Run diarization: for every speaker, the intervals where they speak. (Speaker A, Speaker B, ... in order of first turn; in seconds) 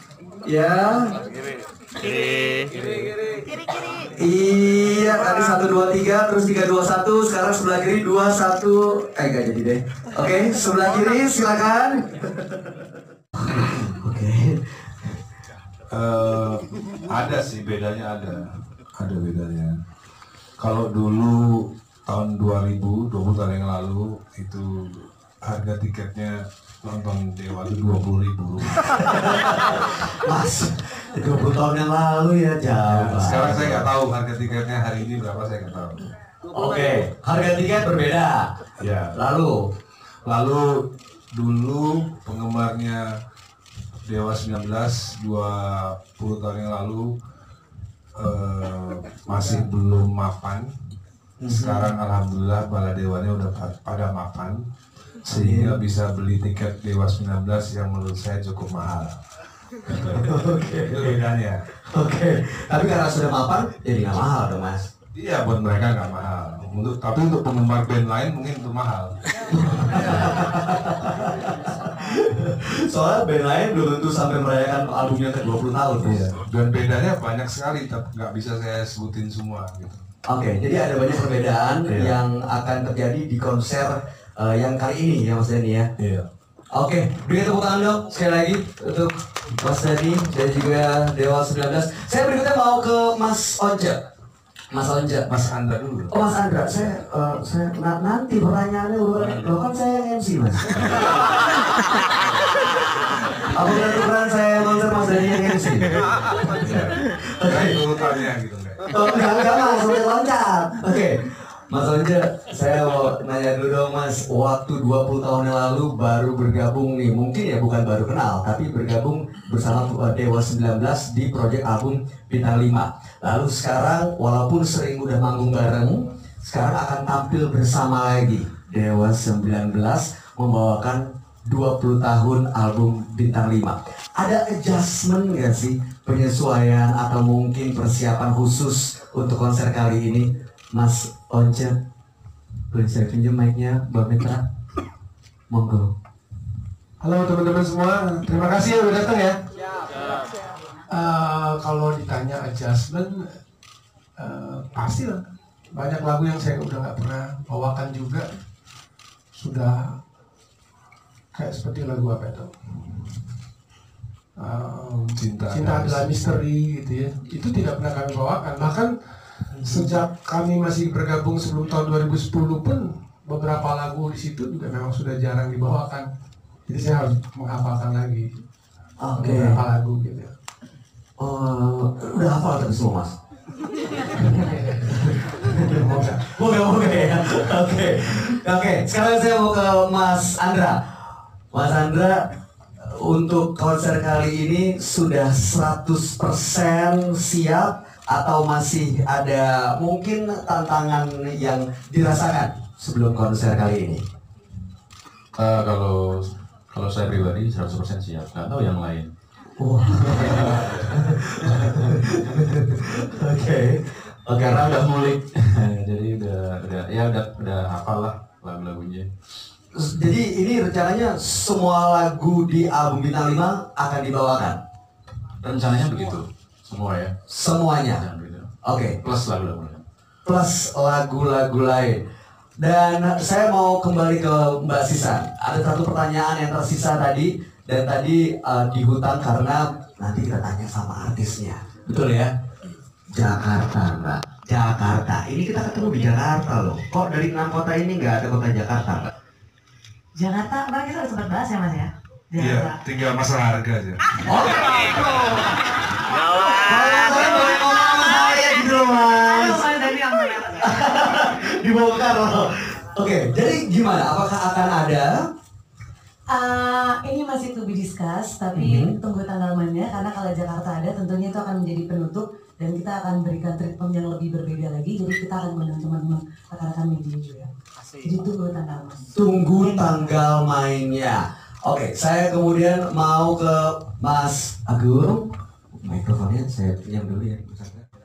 Speaker A: 0.4-1.1, 4.1-12.8, 13.4-15.2, 28.8-33.9, 36.5-38.5, 39.1-39.5, 51.4-51.9, 55.3-55.8, 60.0-61.2, 61.9-64.8, 69.3-76.2, 80.3-85.9, 86.7-94.0, 94.7-95.3, 96.1-101.1, 103.5-106.0, 106.6-107.8, 108.9-141.8, 142.7-144.4, 145.5-145.9, 169.6-169.9, 179.0-179.6, 181.2-183.1, 184.1-190.8, 191.5-192.2, 192.8-204.0, 209.6-215.2, 219.7-224.6, 227.3-228.0, 228.7-229.0, 230.2-232.0, 232.6-242.3, 243.1-249.1, 254.2-255.0, 256.6-259.6, 260.6-265.1, 268.5-269.0, 279.1-287.8
Speaker B: 15.9-19.7, 20.6-28.7, 32.9-36.0, 38.8-39.1, 40.2-40.7, 41.3-43.0, 44.0-47.1, 48.2-50.7, 51.5-54.6, 55.3-59.2, 59.9-61.6, 65.1-69.1, 76.0-80.0, 81.9-82.1, 86.0-86.3, 95.3-96.2, 99.1-99.5, 106.5-108.9, 165.2-166.1, 252.4-254.0
Speaker C: 147.0-149.4, 150.9-153.3, 154.2-155.2, 155.7-158.3, 159.3-159.9, 161.3-162.5, 164.4-168.9, 169.6-176.1, 176.7-178.3, 179.1-180.3, 185.7-186.2
Speaker D: 205.4-209.1, 210.2-210.9, 215.3-219.1, 225.4-227.1, 227.9-228.5, 229.0-229.8
Speaker E: 250.2-252.8, 259.2-260.6, 266.3-277.5, 278.0-279.1